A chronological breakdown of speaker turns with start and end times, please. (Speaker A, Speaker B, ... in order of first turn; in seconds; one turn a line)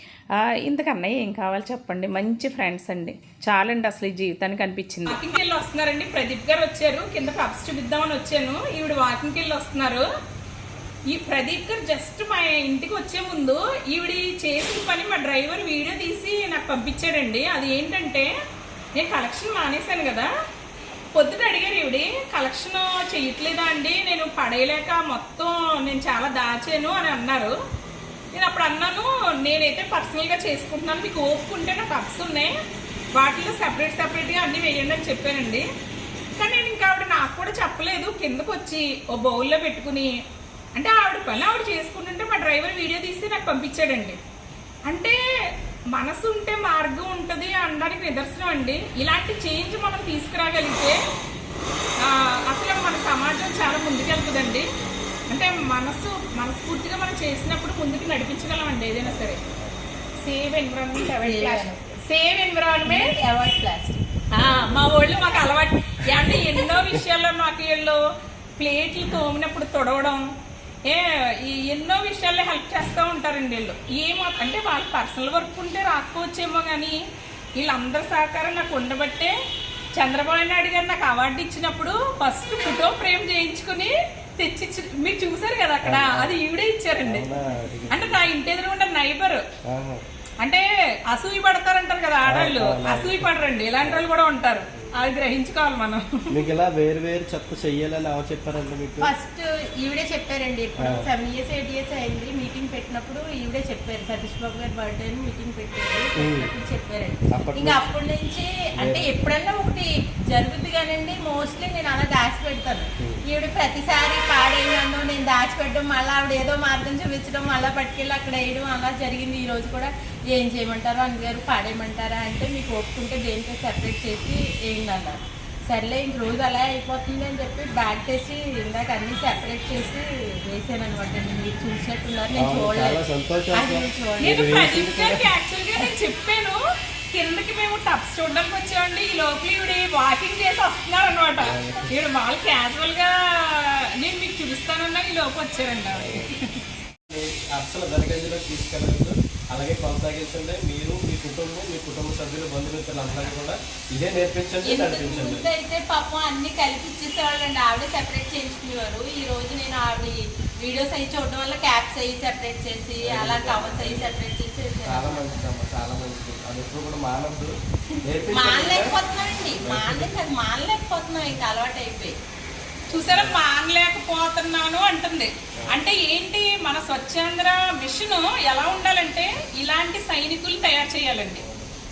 Speaker A: 0.6-10.1
Speaker A: 11.1-18.3
Speaker A: 19.0-20.3
Speaker A: 21.1-27.6
Speaker A: 28.4-32.5
Speaker A: 33.1-35.7
Speaker A: 36.4-40.1
Speaker A: 40.8-44.2
Speaker A: 44.9-45.2
Speaker A: 45.9-51.0
Speaker A: 52.0-54.7
Speaker A: 55.3-59.4
Speaker B: 59.4-59.8
Speaker A: 60.2-63.1
Speaker C: 61.2-61.8
Speaker C: 62.9-65.1
Speaker A: 64.3-68.0
Speaker A: 68.6-70.2
Speaker A: 70.9-77.0
Speaker A: 77.6-79.3
Speaker A: 80.0-87.3
Speaker B: 85.8-86.4
Speaker B: 87.0-88.3
Speaker A: 87.9-89.4
Speaker B: 89.7-90.0
Speaker A: 90.4-96.2
Speaker B: 92.3-93.3
Speaker B: 93.8-94.1
Speaker B: 96.3-99.1
Speaker C: 99.0-134.5
Speaker B: 100.8-101.1
Speaker B: 106.2-106.5
Speaker B: 107.3-107.9
Speaker B: 108.8-109.1
Speaker B: 132.3-135.3
Speaker A: 134.2-136.6
Speaker A: 137.1-146.6
Speaker B: 141.4-141.9
Speaker B: 145.9-146.3
Speaker B: 147.1-155.5
Speaker C: 154.7-165.3
Speaker B: 163.0-164.2
Speaker B: 164.8-169.0
Speaker C: 168.3-172.2
Speaker B: 169.6-170.2
Speaker A: 172.9-181.4
Speaker B: 172.9-173.4
Speaker B: 181.4-181.7